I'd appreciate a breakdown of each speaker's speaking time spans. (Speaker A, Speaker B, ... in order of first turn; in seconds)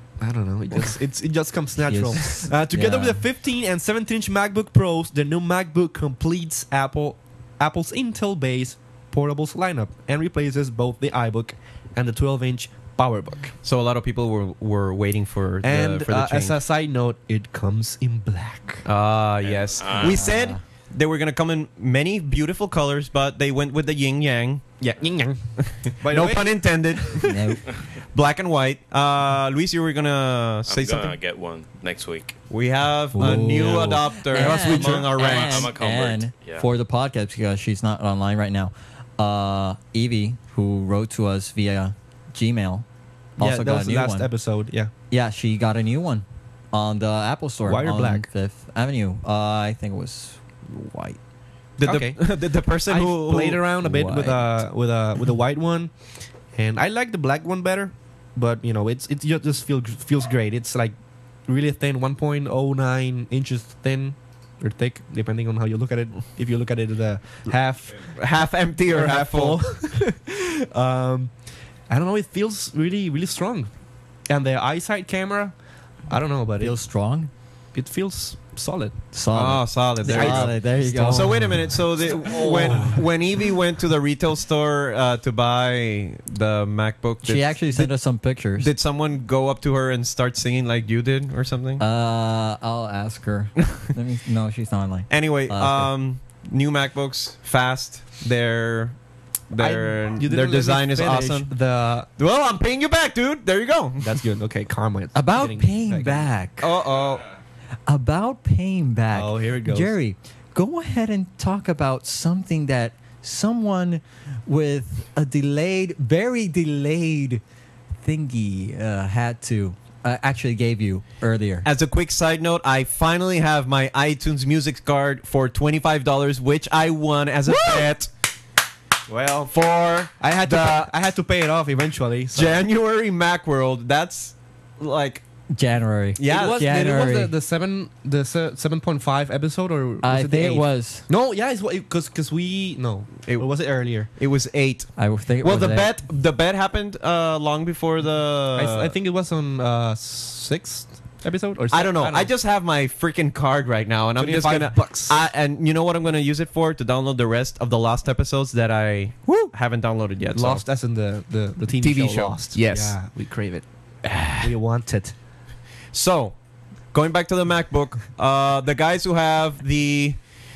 Speaker A: 0.2-13.5, 15.6-18.9, 24.8-27.0, 43.4-44.9, 47.6-48.3, 51.8-55.9, 56.5-60.9, 61.5-68.0, 68.9-71.3, 71.9-73.7, 74.3-75.5, 76.1-76.7, 77.7-79.0, 80.0-83.1, 99.6-102.1, 104.0-106.3, 109.1-109.9, 129.1-129.5, 130.2-132.7, 136.2-144.1, 148.5-152.3, 154.2-155.2, 160.3-163.7, 164.3-165.1
Speaker B: 1.8-3.2, 20.0-20.6, 27.2-27.6, 33.1-42.8, 43.4-44.3, 45.1-51.2, 53.8-54.6, 76.6-77.3, 79.1-81.8, 87.2-88.7, 91.8-95.9, 105.1-106.7, 107.9-117.4, 118.0-121.7, 135.5-137.3, 140.0-141.0, 145.0-145.9, 159.3-159.5
Speaker C: 13.6-16.6, 18.8-24.6, 25.6-31.1, 32.5-35.7, 51.8-53.6, 68.1-69.6, 79.3-87.9, 88.6-91.8, 95.1-99.0, 99.5-101.5, 102.2-104.2, 106.6-107.3, 121.6-128.1, 129.3-130.9, 132.3-135.2, 136.2-136.6, 143.3-148.9, 151.7-160.6, 161.8-163.0, 164.0-164.5, 165.9-166.3, 166.9-170.2
Speaker D: 19.4-20.3, 30.6-32.4, 34.3-36.6